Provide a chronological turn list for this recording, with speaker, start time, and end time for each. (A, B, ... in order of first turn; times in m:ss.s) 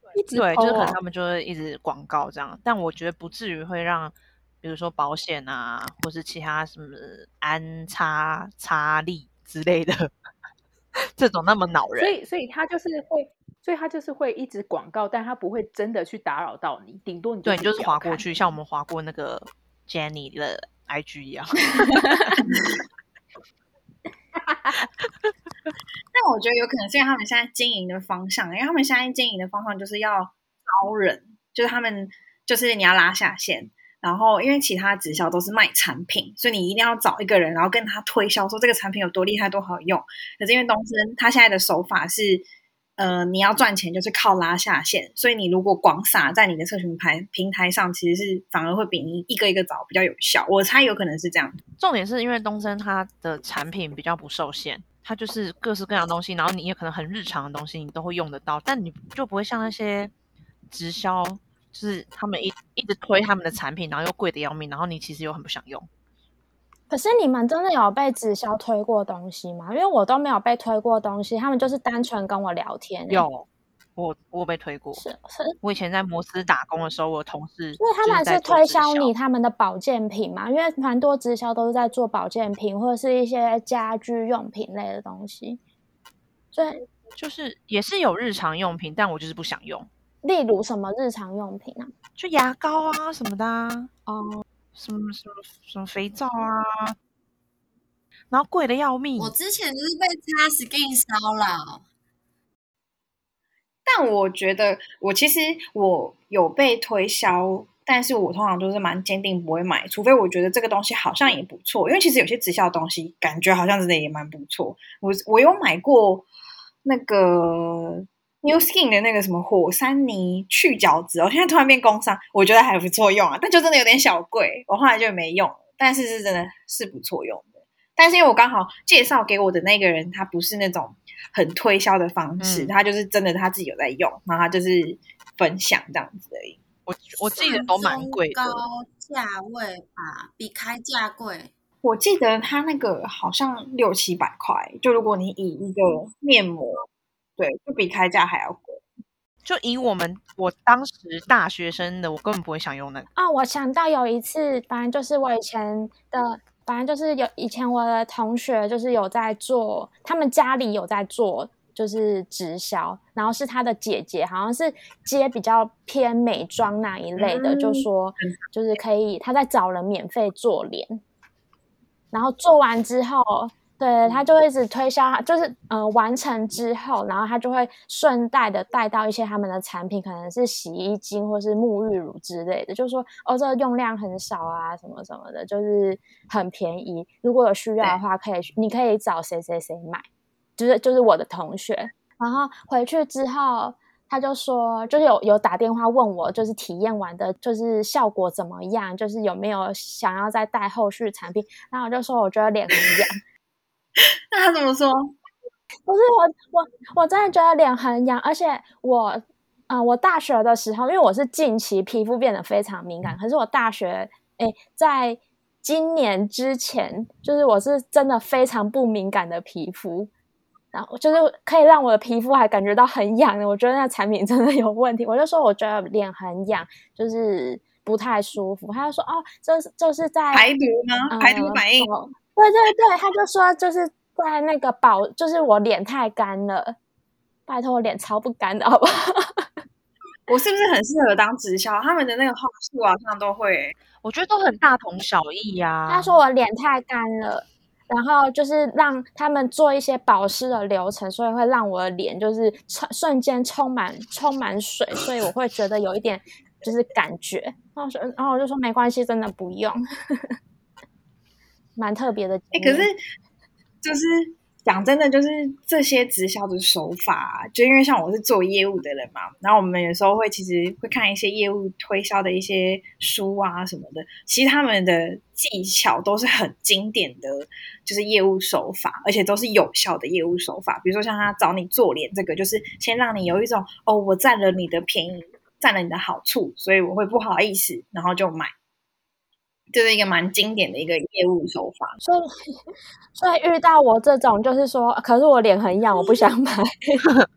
0:00.2-0:01.0 A
0:00.3-0:10.1 B
0:11.2-0:12.2 B
0:12.0-0:18.4 A
0:17.4-0:22.3 B
0:26.1-0:42.5 C
0:43.0-0:51.6 C
0:51.8-1:00.1 B
1:00.7-1:05.9 B
1:06.9-1:13.3 D
1:13.1-1:15.0 B
1:15.0-1:15.6 D
1:15.6-1:19.1 B
1:17.8-1:25.6 D
1:26.5-1:26.8 D
1:27.2-1:29.9 B
1:30.2-1:31.9 D
1:32.2-1:33.9 B
1:34.1-1:34.4 D
1:34.8-1:37.0 B
1:38.3-1:39.3 B
1:39.2-1:41.8 E
1:43.9-1:56.3 C
1:56.8-2:16.6 C
2:12.4-2:12.7 B
2:16.9-2:18.6 B
2:17.2-2:21.5 E
2:21.8-2:26.8 C
2:27.4-2:28.8 C
2:29.4-2:33.1 B
2:33.2-2:51.0 D
2:47.2-2:48.4 C
2:52.1-3:10.0 D
3:10.6-3:23.2 D
3:24.3-3:25.2 C
3:25.9-3:40.1 D
3:40.7-3:50.5 D
3:50.3-3:51.9 C
3:51.1-3:56.8 D
3:57.5-3:59.5 D
4:00.3-4:03.7 C
4:04.0-4:06.2 B
4:05.9-4:20.3 D
4:21.8-4:22.9 D
4:22.5-4:23.0 C
4:23.8-4:48.5 C
4:49.7-4:52.0 C
4:52.0-4:52.3 D
4:53.2-4:57.1 D